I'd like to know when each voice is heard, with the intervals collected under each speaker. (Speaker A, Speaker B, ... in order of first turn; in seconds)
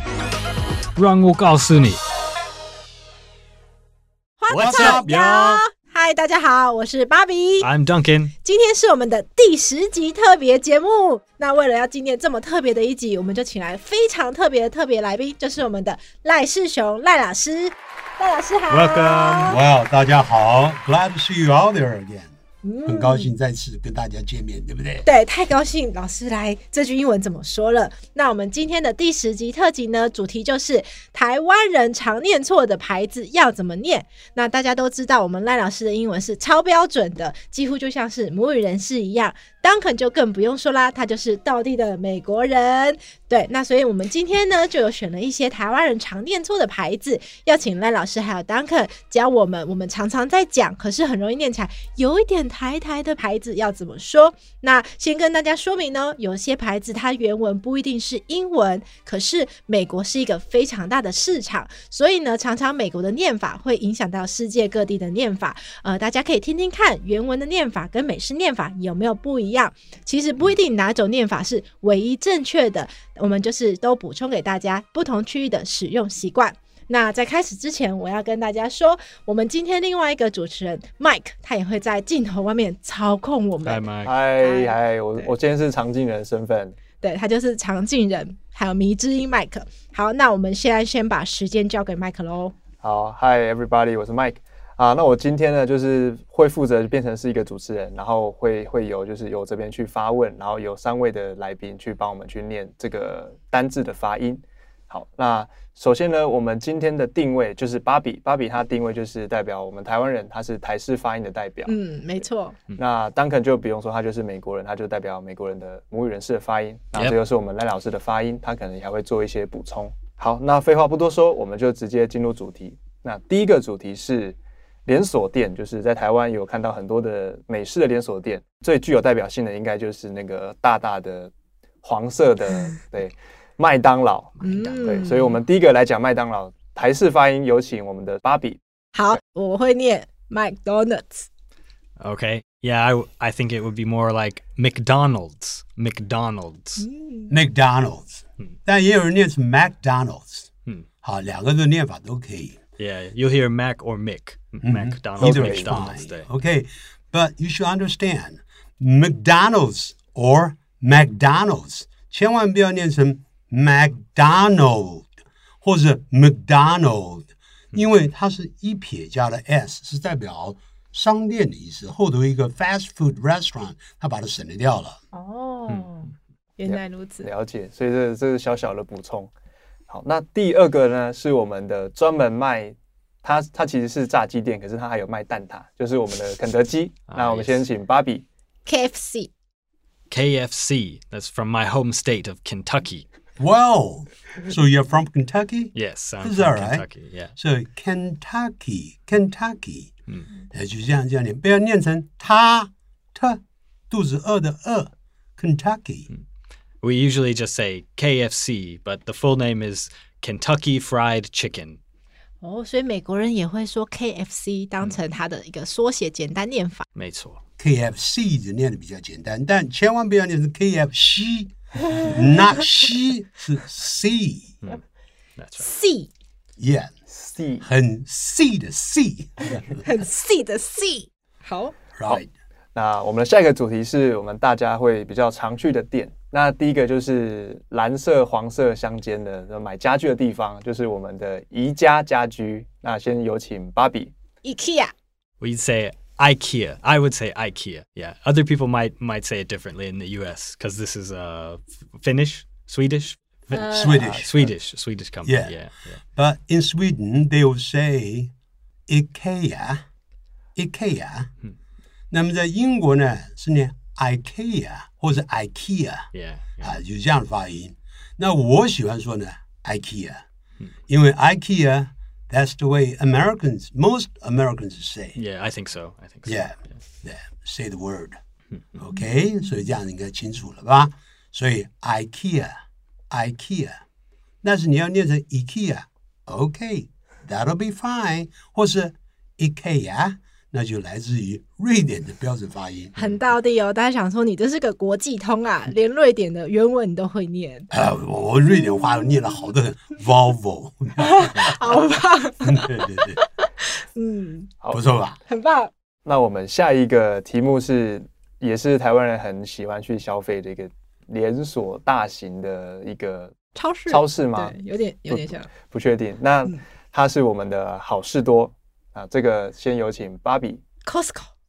Speaker A: 0.9-2.0, 4.5-5.6, 7.6-8.3, 18.7-19.5, 83.6-84.1, 134.4-134.9, 142.0-146.9, 152.8-156.3, 187.1-187.7, 190.1-193.0, 195.7-197.3, 206.8-211.8, 216.9-217.4, 225.4-225.7, 245.4-256.0, 266.1-266.7, 275.1-276.6
Speaker B: 4.4-7.7, 8.4-19.6, 22.6-23.3, 25.0-85.3, 87.0-92.5, 111.6-112.6, 134.4-135.4, 138.9-141.3, 146.8-147.3, 175.1-177.3, 188.7-189.3, 212.4-216.8, 225.6-226.1, 229.8-231.7, 244.4-244.9, 253.5-254.1, 292.9-297.7, 298.5-298.7, 301.0-304.5, 305.3-305.7, 313.5-315.5, 320.8-321.3
Speaker C: 4.5-5.1, 19.4-22.3, 22.8-25.1, 147.3-150.5, 151.0-152.6, 154.6-175.0, 193.4-199.9, 200.5-206.1, 217.6-224.6, 226.6-226.9, 227.6-229.8, 232.0-232.3, 253.7-254.3, 255.2-255.5, 256.1-258.3, 258.9-259.8, 260.6-261.3, 262.1-266.1, 266.6-270.2, 270.9-275.2, 276.2-278.2, 278.8-282.5, 283.1-283.8, 284.4-292.9, 297.7-301.7, 302.4-303.2, 304.7-305.2
Speaker D: 84.0-86.8, 92.8-111.7, 112.8-131.3, 131.8-138.6, 155.2-155.7, 176.6-179.3, 179.9-188.2, 227.1-227.7, 232.7-244.1, 254.0-254.5, 306.0-313.4, 313.9-314.5, 315.1-320.6